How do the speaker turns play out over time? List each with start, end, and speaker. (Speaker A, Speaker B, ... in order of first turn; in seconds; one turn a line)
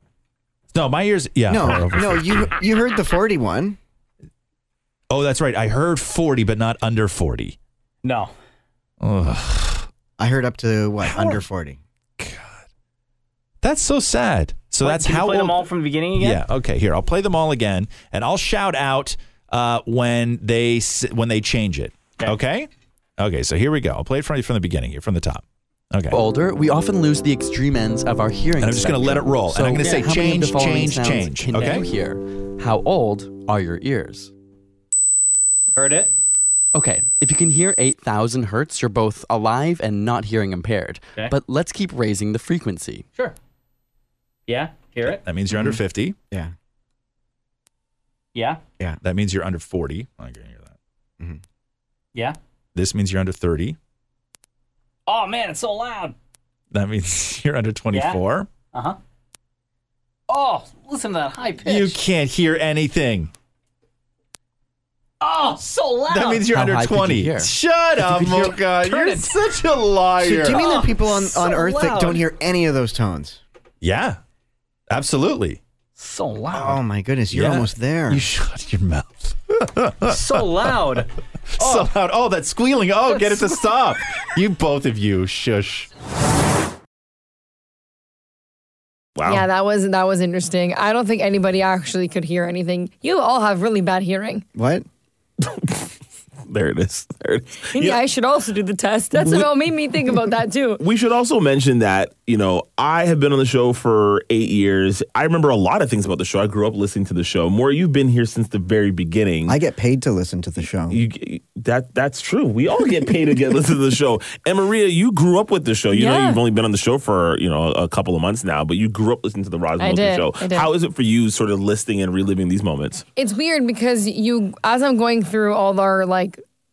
Speaker A: 0.7-2.5
Speaker B: 1.5-3.8
Speaker A: 5.1-7.6
Speaker C: 8.0-8.3
Speaker A: 9.0-9.9
Speaker B: 10.2-11.8
Speaker A: 11.0-11.4
Speaker A: 12.2-12.7
Speaker A: 13.6-26.2
Speaker C: 14.8-16.4
Speaker D: 26.1-34.3
Speaker A: 28.6-31.9
Speaker C: 35.8-36.1
Speaker D: 36.7-43.1
Speaker C: 44.5-45.2
Speaker A: 45.0-46.2
Speaker B: 45.5-45.8
Speaker C: 48.4-48.6
Speaker A: 49.0-50.7
Speaker A: 52.8-53.8
Speaker C: 55.1-56.1
Speaker A: 56.7-58.5
Speaker C: 57.9-58.2
Speaker C: 58.7-59.0
Speaker C: 60.3-62.0
Speaker A: 61.6-63.3
Speaker C: 65.2-66.5
Speaker A: 66.1-70.7
Speaker D: 66.5-68.5
Speaker C: 68.8-69.3
Speaker B: 70.2-73.4
Speaker C: 70.5-72.2
Speaker A: 73.8-74.2
Speaker A: 74.9-75.6
Speaker C: 76.0-76.8
Speaker B: 76.5-78.2
Speaker A: 77.3-80.7
Speaker C: 80.1-81.9
Speaker A: 81.6-85.9
Speaker C: 83.1-83.6
Speaker E: 89.2-89.5
Speaker F: 89.2-94.4
Speaker B: 94.5-94.9
Speaker E: 95.5-95.8
Speaker E: 96.5-98.0
Speaker F: 97.8-100.8
Speaker E: 99.2-99.5
Speaker E: 100.8-109.6
Speaker B: 109.5-111.0
Speaker E: 110.9-123.0
Speaker F: 115.9-116.4
Speaker F: 119.8-120.7
Speaker F: 123.2-126.4